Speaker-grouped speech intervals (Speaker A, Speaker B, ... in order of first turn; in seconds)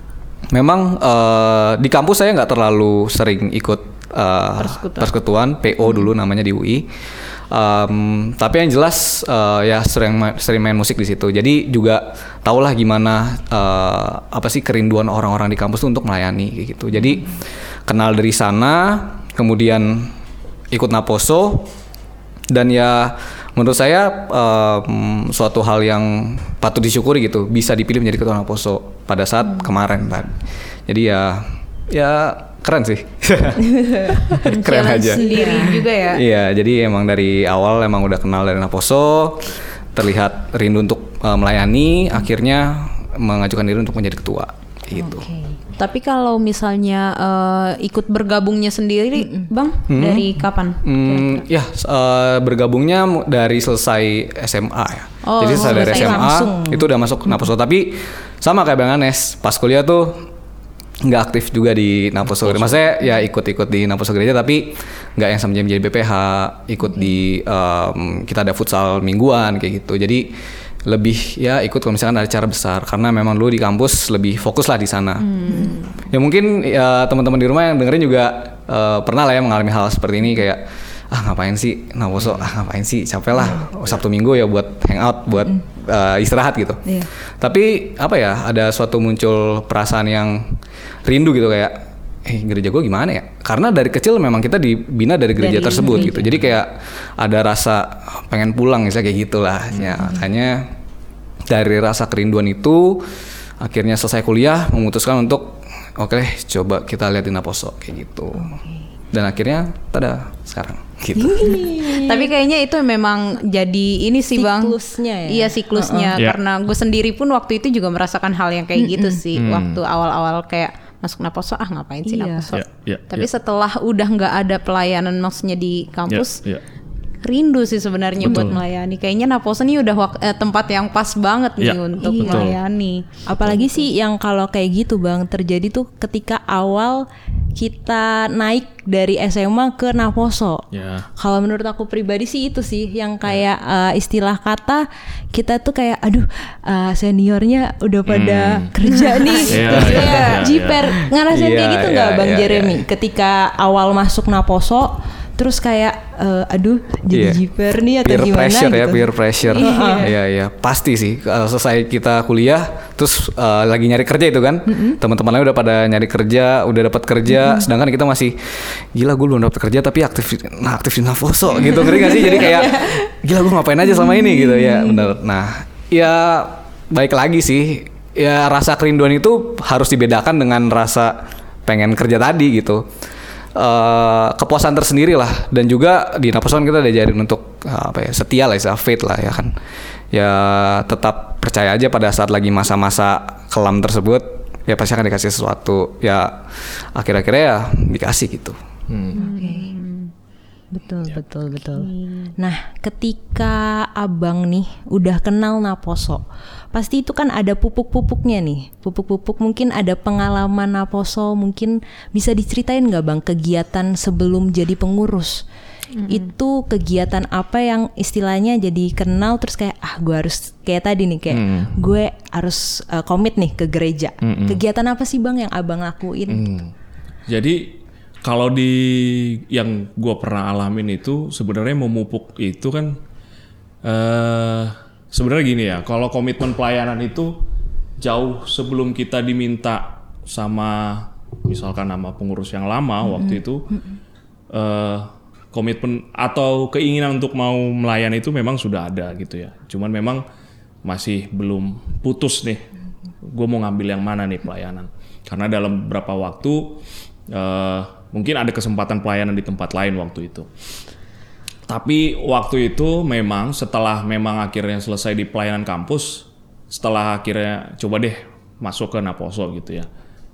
Speaker A: 0.5-6.9, 7.5-20.1, 20.7-21.7, 22.5-45.3, 49.9-60.2, 61.0-70.3, 70.8-90.5, 91.0-100.7, 101.5-103.0, 103.6-108.6, 109.1-111.7, 149.7-150.1, 151.3-152.8, 157.1-157.4, 158.0-182.8, 183.6-189.5, 190.1-198.6
Speaker B: 4.6-5.1, 34.4-36.2, 45.8-51.4, 55.2-56.3, 75.2-76.0, 111.9-126.4, 127.2-133.8, 149.3-150.2, 159.4-160.1, 199.1-200.1, 201.7-202.3, 215.9-216.2
Speaker C: 35.1-35.8, 45.0-45.6, 49.2-49.5, 55.4-56.9, 95.4-96.3, 111.2-112.3, 114.3-116.1, 118.8-119.2, 122.0-122.5, 132.0-132.5, 133.2-140.6, 141.2-160.1, 164.7-165.0, 171.7-172.3, 174.2-175.1, 199.1-199.7, 200.7-215.4, 216.1-226.5
Speaker D: 82.2-82.5, 119.3-119.8, 122.5-123.3, 126.1-126.6, 128.2-128.6, 131.6-132.6, 140.7-141.1, 148.1-148.7, 149.5-150.8, 198.9-199.2, 221.3-221.7, 224.2-224.6, 226.3-226.7, 227.3-233.0, 233.8-237.3, 238.0-243.7, 244.5-250.2, 250.8-252.6, 253.2-260.5, 261.7-269.9